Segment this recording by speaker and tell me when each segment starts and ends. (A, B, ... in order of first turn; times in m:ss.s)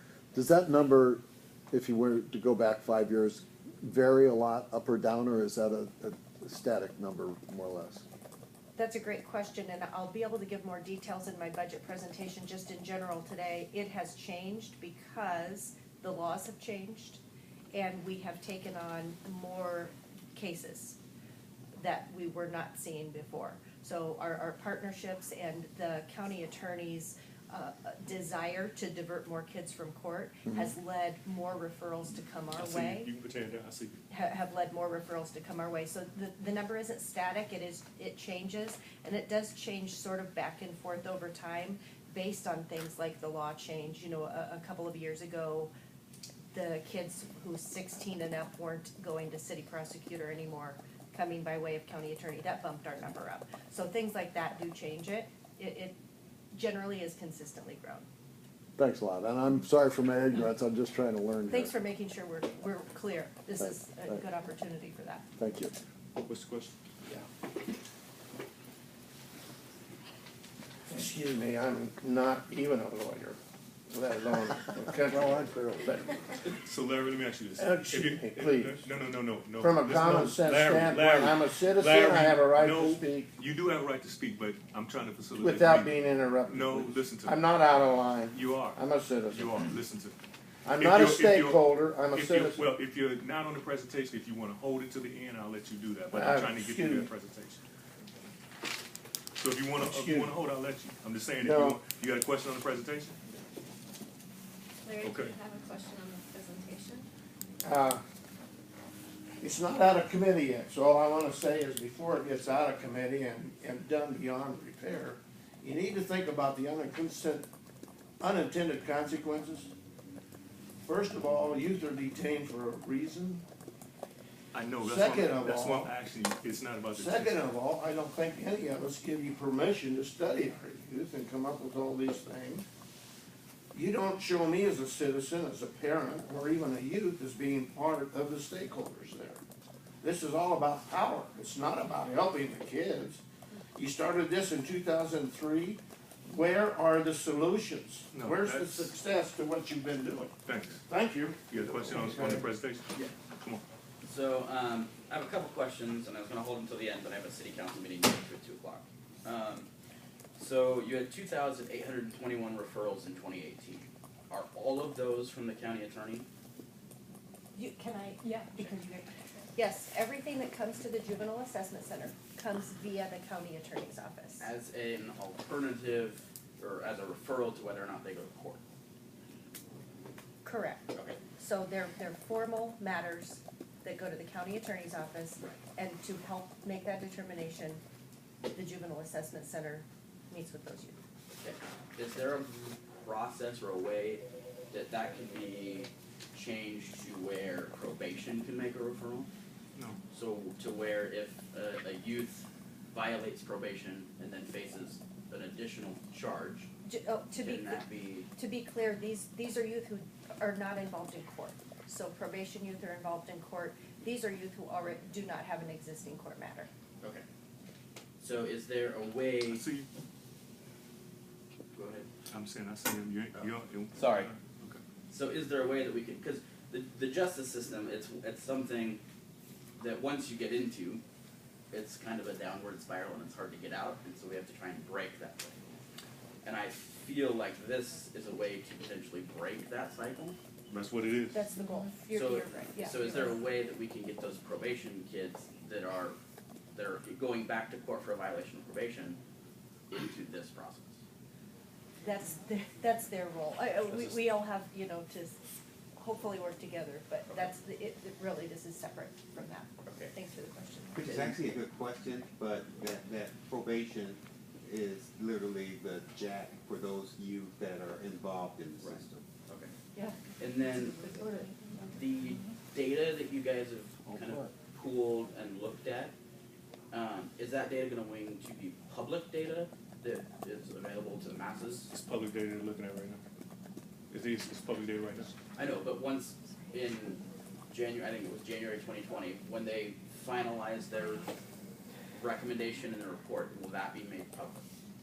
0:00.3-0:08.0 A
0:08.8-0:17.2 B
0:17.7-0:21.0 B
0:21.7-0:33.1 B
0:32.6-0:34.0 C
0:34.1-0:45.7 B
0:46.5-0:55.9 B
0:56.5-0:58.1 B
0:58.8-1:01.7 A
1:01.5-1:05.3 B
1:03.6-1:04.2 A
1:05.4-1:05.7 A
1:06.2-1:06.7 C
1:10.9-1:13.4 D
1:13.9-1:16.2 D
1:15.0-1:16.0 A
1:16.5-1:27.4 C
1:17.6-1:18.9 D
1:19.6-1:23.3 D
1:25.4-1:29.7 D
1:28.3-1:30.2 C
1:30.6-1:32.7 D
1:30.8-1:37.6 C
1:36.1-1:37.1 D
1:39.4-1:43.2 C
1:39.8-1:40.4 D
1:41.4-1:41.8 D
1:44.8-1:47.1 E
1:45.0-1:45.4 C
1:47.6-1:48.0 D
1:49.4-1:57.5 D
1:58.2-1:59.7 D
2:00.8-2:03.4 D
2:04.5-2:07.4 C
2:04.8-2:05.9 D
2:06.9-2:12.7 D
2:13.7-2:19.4 D
2:20.0-2:23.2 D
2:23.8-2:32.5 D
2:28.1-2:28.9 C
2:30.4-2:30.8 C
2:31.5-2:33.6 C
2:34.0-2:39.7 F
2:40.4-2:46.3 F
2:47.6-2:48.8 B
2:48.2-2:49.4 E
2:49.6-2:54.5 B
2:54.4-2:58.6 F
3:00.4-3:07.8 B
3:00.9-3:01.2 F
3:08.5-3:11.0 B
3:11.3-3:19.3 F
3:20.1-3:26.7 F
3:26.8-3:36.7 B
3:27.4-3:28.3 F
3:38.2-3:39.6 F
3:39.5-3:39.9 C
3:41.7-3:42.1 F
3:42.3-3:44.8 C
3:43.4-3:44.3 F
3:45.1-3:49.0 F
3:49.8-3:51.0 F
3:51.7-3:55.6 F
3:56.4-4:00.4 F
4:00.7-4:01.5 C
4:01.3-4:03.4 B
4:02.1-4:06.2 F
4:06.7-4:09.2 F
4:09.9-4:11.0 F
4:12.0-4:15.4 B
4:16.0-4:21.1 B
4:19.8-4:20.1 F
4:21.0-4:29.2 G
4:21.0-4:21.3 F
4:28.8-4:29.7 F
4:30.4-4:31.3 F
4:31.0-4:31.8 E
4:31.9-4:36.1 F
4:36.9-4:41.9 F
4:41.9-4:43.2 C
4:44.1-4:45.3 C
4:45.6-4:51.3 F
4:52.2-4:54.7 F